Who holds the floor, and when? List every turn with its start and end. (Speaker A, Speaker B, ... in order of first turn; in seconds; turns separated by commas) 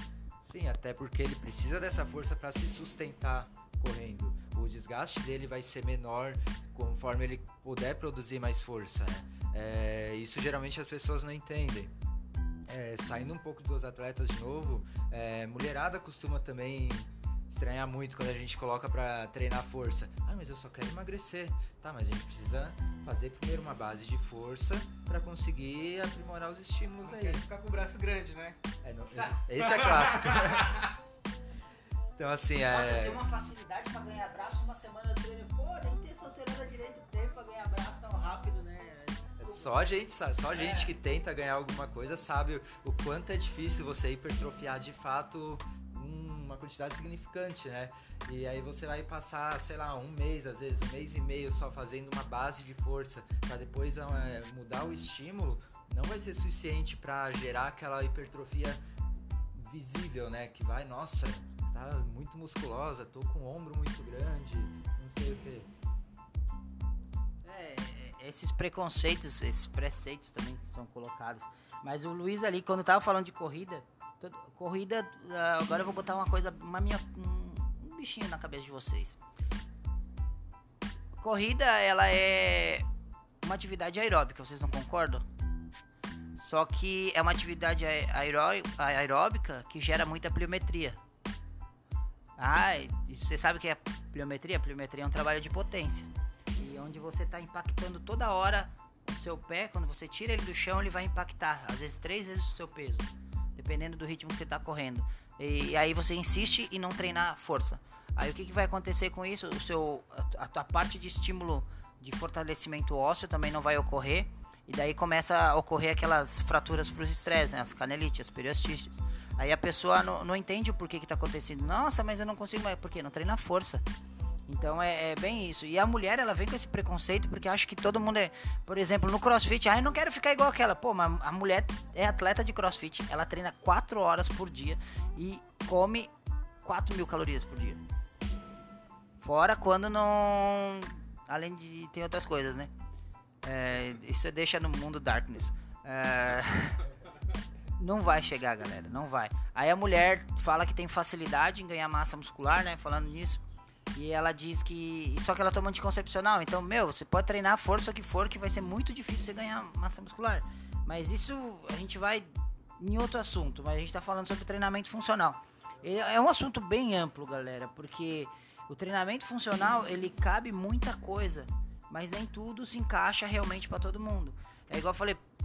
Speaker A: 0.4-11.9, Speaker A: 12.7-27.4, Speaker B: 27.0-28.6, Speaker A: 28.8-30.9, Speaker B: 29.5-30.9, Speaker A: 32.2-33.2, Speaker C: 32.7-39.7, Speaker A: 39.4-58.8, Speaker C: 40.5-40.9, Speaker A: 59.5-65.7, Speaker C: 67.5-79.2, Speaker C: 81.2-82.8, Speaker C: 83.4-85.2, Speaker C: 86.4-91.0, Speaker C: 92.4-123.8, Speaker C: 124.5-136.1, Speaker C: 136.6-137.8, Speaker C: 139.2-142.7, Speaker C: 143.4-146.9, Speaker C: 147.8-153.4, Speaker C: 153.9-175.2